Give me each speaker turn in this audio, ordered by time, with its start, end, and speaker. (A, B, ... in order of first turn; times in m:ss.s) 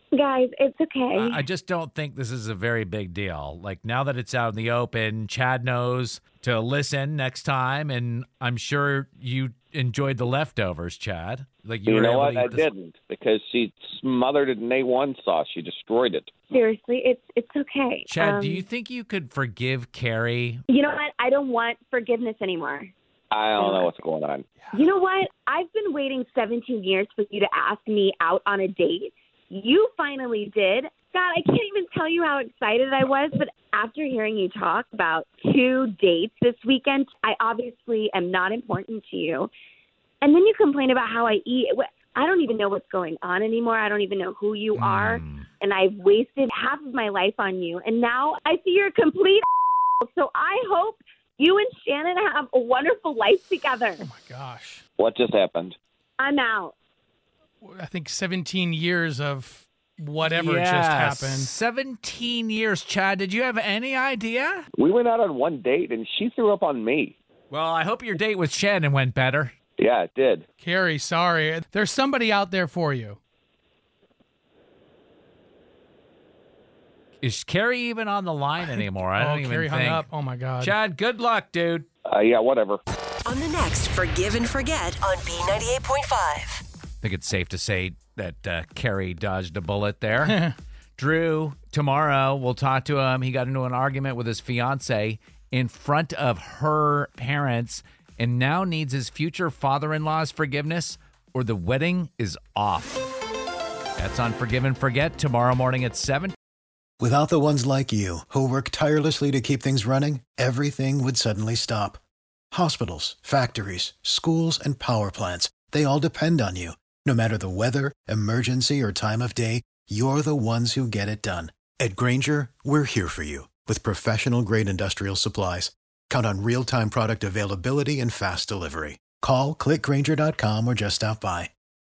0:00.1-0:01.4 A
0:01.1-0:12.7 B
0:11.9-0:16.3 C
0:16.5-0:18.6 A
0:18.1-0:20.6 B
0:20.7-0:22.9 A
0:23.3-0:24.4 C
0:23.6-0:24.0 A
0:24.7-0:39.5 A
0:40.2-0:49.4 A
0:44.8-0:45.5 B
0:50.0-0:54.1 A
0:54.0-0:54.8 D
0:55.0-0:55.8 C
0:56.2-0:56.8 A
0:57.6-1:01.5 D
1:00.2-1:04.7 B
1:04.8-1:07.2 C
1:07.5-1:09.5 B
1:09.8-1:10.4 C
1:10.6-1:13.2 D
1:17.2-1:20.1 B
1:18.6-1:20.8 D
1:20.6-1:21.9 B
1:22.1-1:22.8 C
1:23.2-1:26.6 E
1:27.0-1:43.1 B
1:30.2-1:30.6 D
1:44.0-1:46.3 B
1:47.0-1:52.0 F
1:52.5-2:11.5 F